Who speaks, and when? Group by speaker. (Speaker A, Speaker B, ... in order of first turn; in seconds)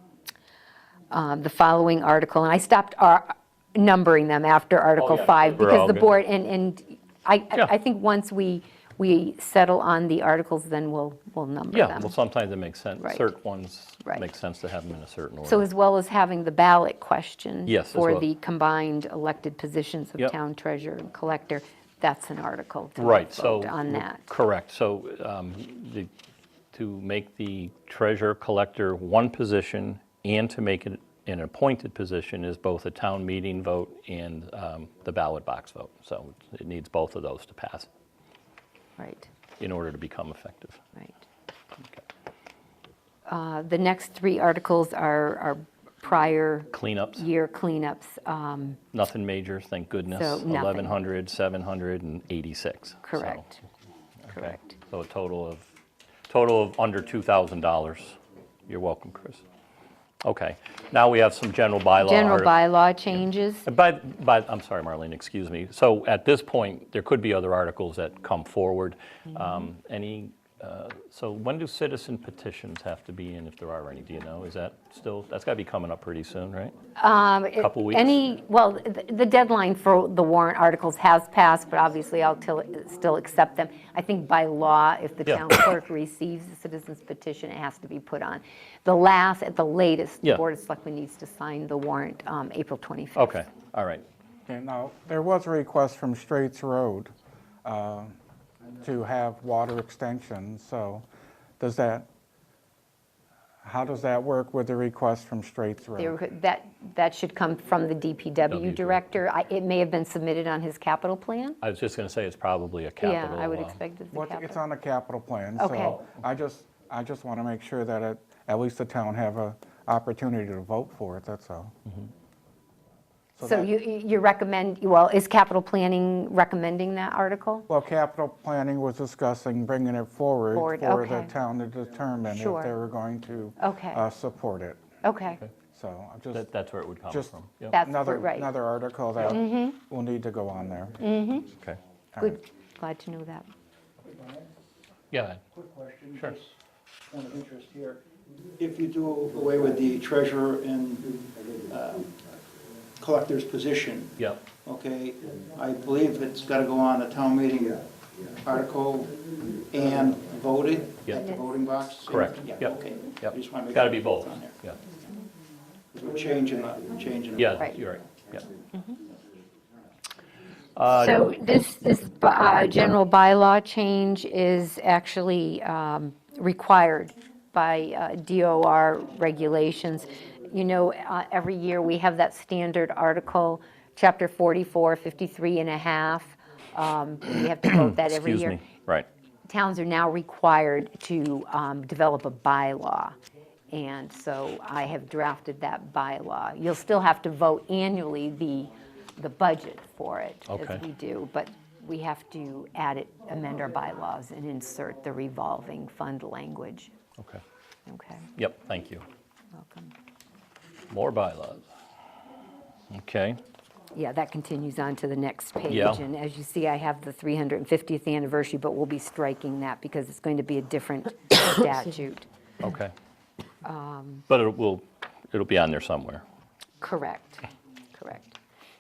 Speaker A: 1.1-12.1, 13.0-13.3, 15.4-24.2, 39.0-39.3, 43.3-48.8, 50.1-51.0, 53.0-53.6, 54.3-54.8, 62.0-63.7, 77.0-93.4, 106.0-111.6, 113.0-114.6, 115.6-116.0, 123.4-127.7, 130.5-131.3, 132.3-132.7, 133.6-134.0, 135.0-135.4, 137.7-138.5, 139.2-139.8, 141.0-141.5, 142.2-143.5, 170.9-188.6, 189.5-193.2, 193.7-206.9, 207.9-208.3, 209.5-209.9, 213.9-222.3, 223.6-224.3, 226.8-228.4
Speaker B: 5.0-6.1, 11.7-15.7, 17.7-18.3, 23.0-26.1, 26.7-37.9, 39.6-40.8, 46.7-47.2, 48.9-53.5, 54.3-55.7, 56.3-59.4, 60.2-62.6, 63.1-76.8, 77.6-78.1, 85.3-85.6, 93.2-94.0, 108.5-109.0, 111.6-113.8, 136.3-137.8, 145.1-145.4, 162.1-164.8, 167.4-168.5, 170.8-171.2, 187.7-189.1, 200.5-200.8, 208.4-209.1, 210.9-211.7, 212.9-213.4, 215.7-216.0, 222.6-222.9, 224.3-226.2
Speaker C: 94.5-97.1, 97.6-98.2, 98.8-101.0, 101.6-102.1, 103.6-106.2, 114.1-121.7, 123.4-123.7, 127.7-134.8, 135.7-136.5, 137.1-141.0
Speaker D: 144.1-144.5, 145.6-146.5, 147.1-148.1, 148.6-152.2, 153.0-164.5, 165.9-167.7